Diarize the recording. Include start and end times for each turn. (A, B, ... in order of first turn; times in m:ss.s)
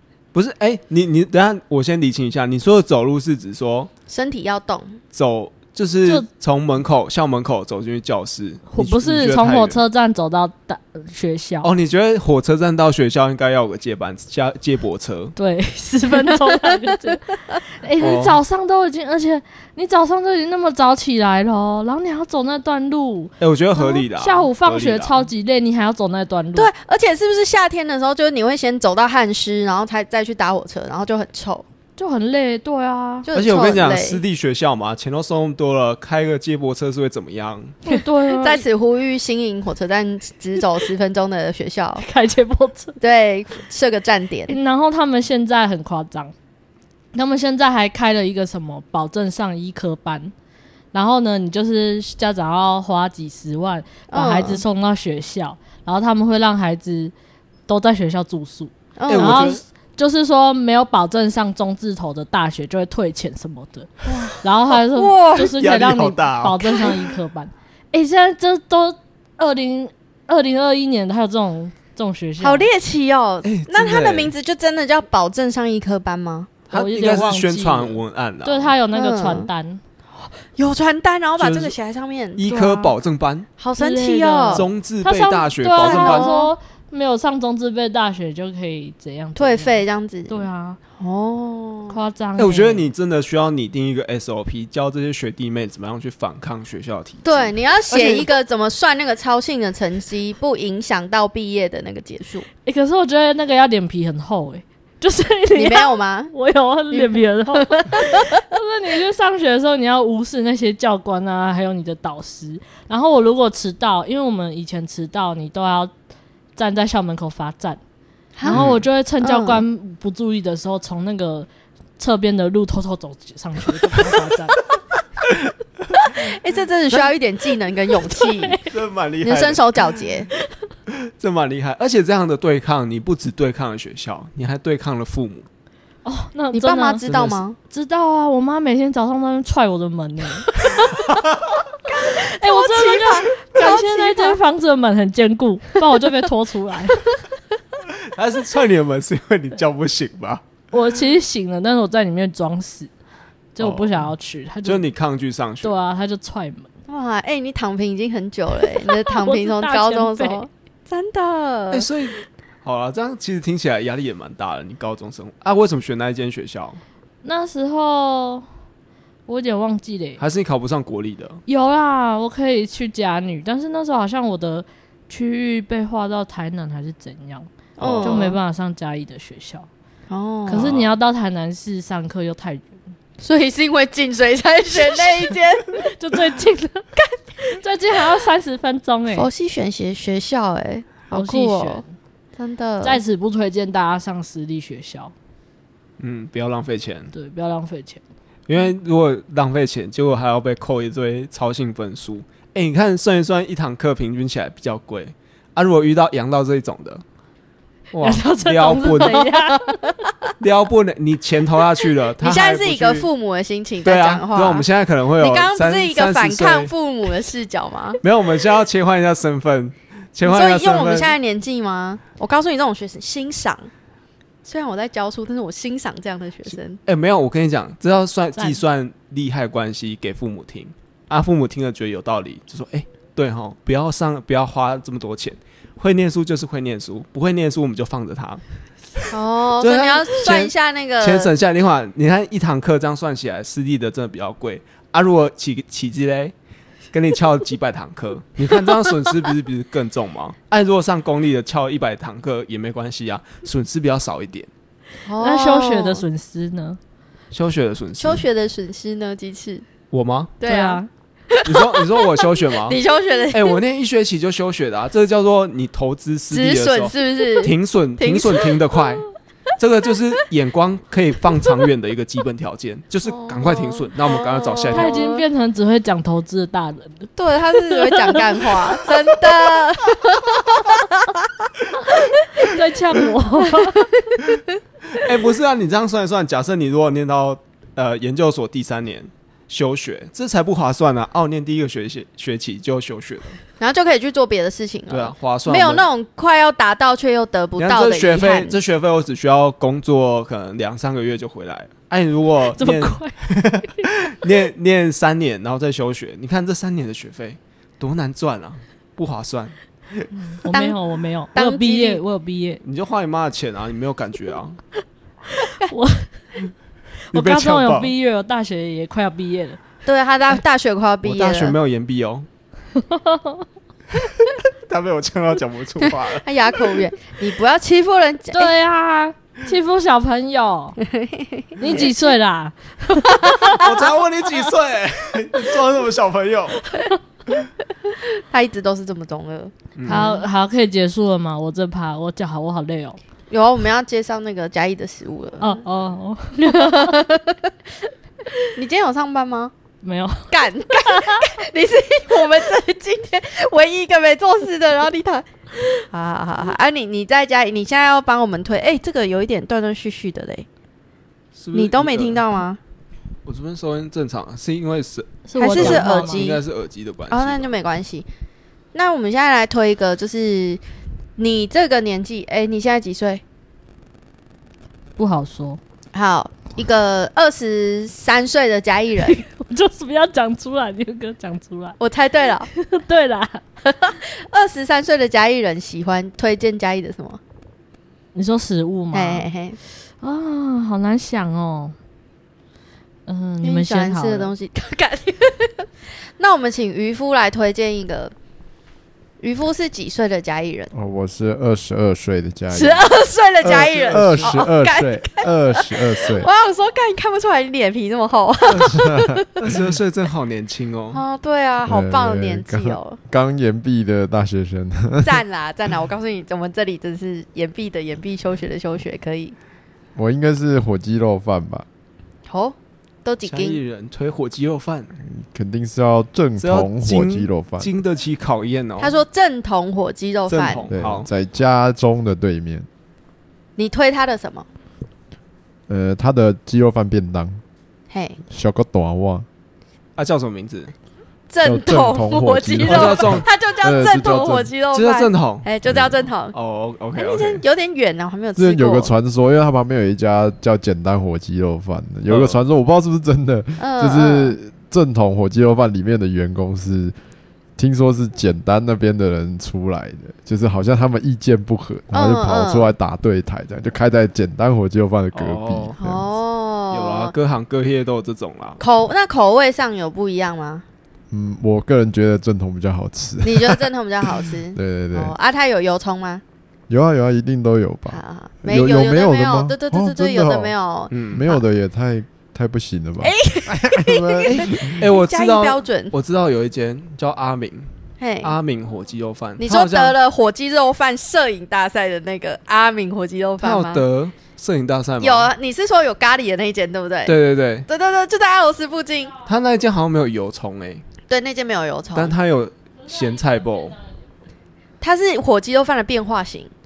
0:00.3-0:03.9 A
0:04.1-0:05.0 B
0:05.1-0:09.8 A
0:08.7-0:11.7 C
0:11.6-0:15.3 A
0:15.4-0:26.7 C
0:18.0-0:18.4 A
0:23.4-0:25.3 A
0:26.6-0:31.6 B
0:32.0-0:33.3 C
0:33.2-0:34.2 B
0:33.3-0:37.8 A
0:37.8-0:38.6 C
0:38.4-0:42.0 B
0:42.0-0:42.9 C
0:43.0-0:44.6 B
0:44.5-0:46.3 C
0:47.1-0:50.3 C
0:50.9-0:57.1 C
0:54.1-0:54.6 B
0:57.7-1:12.7 C
0:59.0-0:59.5 B
0:59.1-0:59.6 A
1:05.0-1:07.1 A
1:12.4-1:16.5 B
1:13.4-1:14.3 A
1:16.7-1:18.7 A
1:16.7-1:19.8 C
1:18.9-1:19.5 B
1:20.2-1:22.4 B
1:21.4-1:21.7 A
1:22.4-1:23.5 A
1:22.4-1:22.9 C
1:23.6-1:24.6 B
1:23.8-1:30.8 C
1:24.5-1:26.3 A
1:25.8-1:26.5 B
1:29.4-1:30.4 B
1:31.0-1:32.0 B
1:31.9-1:32.9 C
1:32.4-1:38.2 A
1:37.2-1:42.5 B
1:42.6-1:55.9 C
1:45.5-1:46.3 B
1:46.9-1:48.2 B
1:56.6-1:57.8 C
1:58.4-1:58.6 B
1:58.4-2:01.5 C
1:58.5-1:58.8 A
1:59.2-1:59.6 B
2:02.0-2:04.6 C
2:06.1-2:08.6 B
2:08.4-2:08.7 C
2:08.7-2:09.9 A
2:09.2-2:10.3 B
2:10.9-2:15.5 A
2:16.0-2:17.1 C
2:16.5-2:17.6 B
2:17.0-2:17.4 A
2:17.7-2:20.7 C
2:20.7-2:20.9 B
2:21.9-2:24.4 B
2:22.1-2:27.1 C
2:28.1-2:30.4 A
2:30.7-2:32.9 C
2:33.6-2:34.8 C
2:33.6-2:34.1 A
2:34.6-2:35.8 A
2:35.6-2:36.7 C
2:36.9-2:41.9 B
2:38.6-2:40.4 C
2:41.7-2:46.8 A
2:47.2-2:48.4 C
2:49.3-2:50.2 C
2:50.2-2:51.4 A
2:51.4-2:57.5 C
2:57.8-2:58.4 B
2:57.8-2:58.3 A
2:58.0-2:59.7 C
3:00.1-3:00.7 B
3:00.5-3:02.7 C
3:00.5-3:00.9 A
3:03.2-3:05.7 B
3:05.7-3:09.3 C
3:09.1-3:11.8 B
3:11.1-3:11.9 C
3:12.4-3:13.0 B
3:12.8-3:15.1 C
3:16.0-3:17.1 A
3:17.1-3:18.0 C
3:18.5-3:27.0 A
3:27.9-3:29.3 A
3:28.0-3:30.0 C
3:30.4-3:33.1 A
3:32.2-3:34.6 B
3:33.8-3:36.7 A
3:35.2-3:38.0 B
3:38.0-3:41.1 A
3:40.2-3:43.7 B
3:44.4-3:46.8 B
3:46.8-3:58.4 A
3:48.4-3:48.6 C
3:59.1-4:01.3 B
3:59.6-4:06.3 A
4:06.9-4:14.5 A
4:15.0-4:16.0 B
4:15.2-4:16.8 C
4:17.3-4:18.2 A
4:18.0-4:19.7 B
4:19.9-4:20.4 A
4:20.4-4:23.6 B
4:20.4-4:20.9 C
4:21.4-4:22.8 A
4:23.3-4:35.0 A
4:26.3-4:28.5 B
4:33.0-4:35.2 B
4:34.7-4:37.1 C
4:37.2-4:41.2 B
4:37.7-4:38.7 C
4:42.0-4:42.5 B
4:42.4-4:43.9 C
4:43.7-4:44.2 B
4:44.9-4:53.4 A
4:53.6-4:58.6 B
4:54.9-4:55.8 A
4:57.6-5:10.0 A
5:02.6-5:03.8 C
5:10.2-5:12.6 C
5:10.5-5:10.8 B
5:11.3-5:12.0 B
5:12.6-5:14.6 A
5:15.4-5:16.1 C
5:17.1-5:19.6 C
5:17.1-5:17.9 A
5:19.8-5:21.5 B
5:21.0-5:22.3 A
5:22.8-5:23.5 C
5:24.3-5:26.2 A
5:26.2-5:28.5 B
5:28.3-5:30.8 C
5:30.8-5:31.9 B
5:31.6-5:33.7 C
5:33.1-5:33.6 B
5:33.4-5:36.6 A
5:37.9-5:40.2 B
5:39.8-5:40.2 A
5:39.8-5:43.0 C
5:43.3-5:45.6 B
5:45.4-5:47.0 C
5:46.4-5:47.5 B
5:48.5-5:49.5 B
5:49.8-5:51.3 C
5:50.3-5:55.2 B
5:55.9-6:00.4 B
6:01.4-6:02.2 A
6:01.5-6:02.6 B
6:03.2-6:07.5 A
6:05.3-6:06.2 C
6:05.4-6:06.4 B
6:07.1-6:08.1 B
6:08.7-6:10.6 B
6:11.2-6:13.2 B
6:15.0-6:15.6 C
6:15.9-6:19.2 B
6:19.1-6:21.8 C
6:21.8-6:22.5 B
6:22.5-6:23.4 C
6:23.6-6:27.2 B
6:28.1-6:29.2 C
6:28.9-6:29.6 B
6:30.0-6:31.7 C
6:33.0-6:34.3 C
6:33.4-6:38.1 B
6:39.2-6:40.7 B
6:40.7-6:42.9 D
6:42.5-6:49.4 B
6:43.4-6:44.4 A
6:43.8-6:46.3 D
6:48.7-6:49.2 D
6:49.4-6:51.0 A
6:50.9-6:53.0 B
6:51.6-6:55.2 D
6:55.0-6:59.4 B
6:59.9-7:01.6 D
7:02.3-7:03.6 B
7:03.2-7:04.9 A
7:05.0-7:07.7 D
7:06.4-7:09.0 A
7:08.8-7:10.7 B
7:10.3-7:11.1 A
7:10.7-7:12.7 D
7:13.6-7:14.4 B
7:15.7-7:17.4 D
7:17.9-7:18.2 B
7:18.3-7:19.3 D
7:20.0-7:20.7 A
7:21.3-7:26.3 B
7:21.4-7:24.5 D
7:22.6-7:23.3 A
7:24.7-7:25.5 A
7:25.7-7:26.0 D
7:26.3-7:27.4 A
7:27.0-7:28.9 B
7:28.4-7:36.9 D
7:32.1-7:32.4 A
7:33.6-7:34.4 B
7:37.6-7:46.0 D
7:41.9-7:42.7 B
7:45.1-7:45.8 A
7:45.8-7:47.1 B
7:46.7-7:48.6 A
7:48.6-7:50.6 B
7:51.1-7:55.1 D
7:53.2-7:56.2 B
7:56.7-8:00.5 D
7:57.9-8:01.4 B
8:00.9-8:01.2 A
8:01.1-8:04.8 D
8:03.0-8:05.9 B
8:04.3-8:07.7 A
8:08.0-8:08.4 B
8:08.2-8:10.0 A
8:09.4-8:13.8 B
8:13.4-8:15.3 A
8:15.0-8:17.2 B
8:17.0-8:17.7 A
8:17.7-8:19.2 B
8:19.2-8:20.8 A
8:21.1-8:22.1 B
8:21.9-8:23.8 A
8:22.9-8:23.8 C
8:24.8-8:26.5 B